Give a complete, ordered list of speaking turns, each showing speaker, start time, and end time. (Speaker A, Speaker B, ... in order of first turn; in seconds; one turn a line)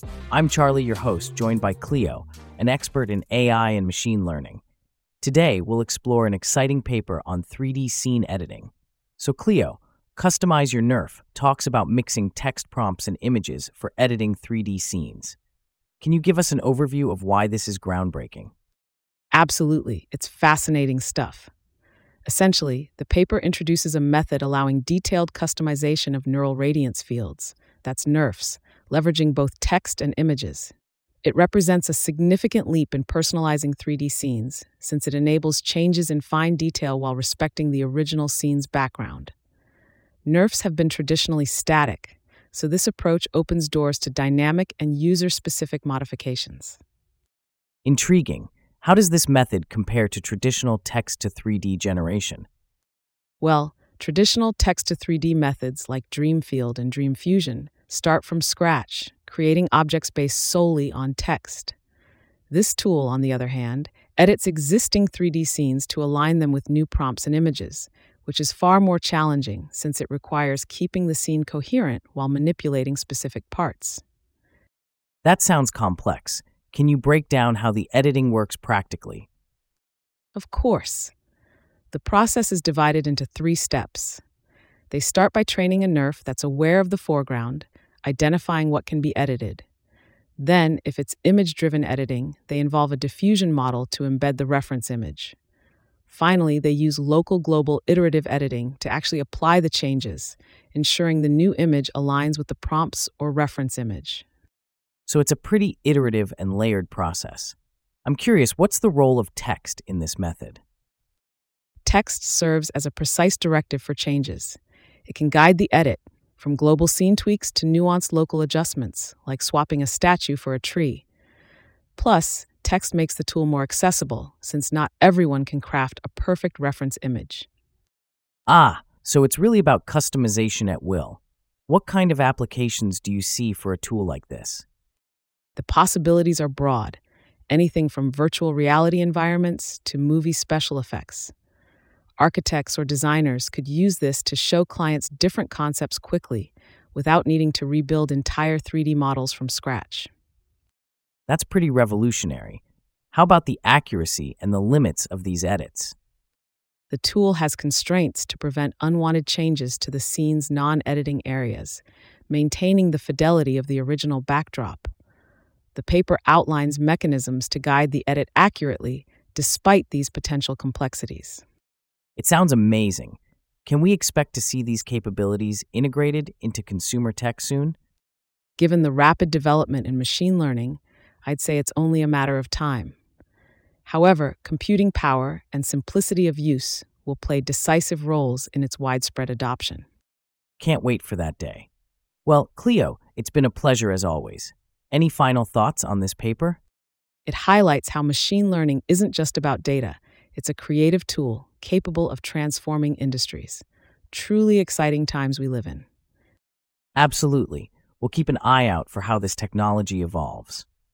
Speaker A: 0.3-4.6
Speaker A: 5.2-15.4
Speaker A: 16.0-18.5
Speaker B: 19.3-21.5
Speaker B: 22.2-30.7
Speaker B: 31.2-39.3
Speaker B: 40.2-46.8
Speaker A: 47.8-52.5
Speaker B: 53.4-61.7
Speaker B: 62.5-74.0
Speaker A: 75.2-79.3
Speaker B: 80.3-81.1
Speaker B: 81.9-84.2
Speaker B: 84.9-89.6
Speaker B: 90.4-95.3
Speaker B: 96.1-104.2
Speaker A: 105.1-110.6
Speaker B: 111.8-121.0
Speaker B: 122.0-127.5
Speaker A: 128.5-134.7
Speaker B: 135.5-141.3
Speaker B: 142.2-150.1
Speaker A: 151.3-152.6
Speaker A: 153.1-155.9
Speaker B: 156.9-164.9
Speaker B: 165.7-171.4
Speaker A: 172.2-177.8
Speaker B: 178.6-182.9
Speaker B: 183.8-189.8
Speaker A: 190.6-191.7
Speaker A: 192.2-196.6
Speaker B: 197.2-205.8
Speaker A: 206.9-210.7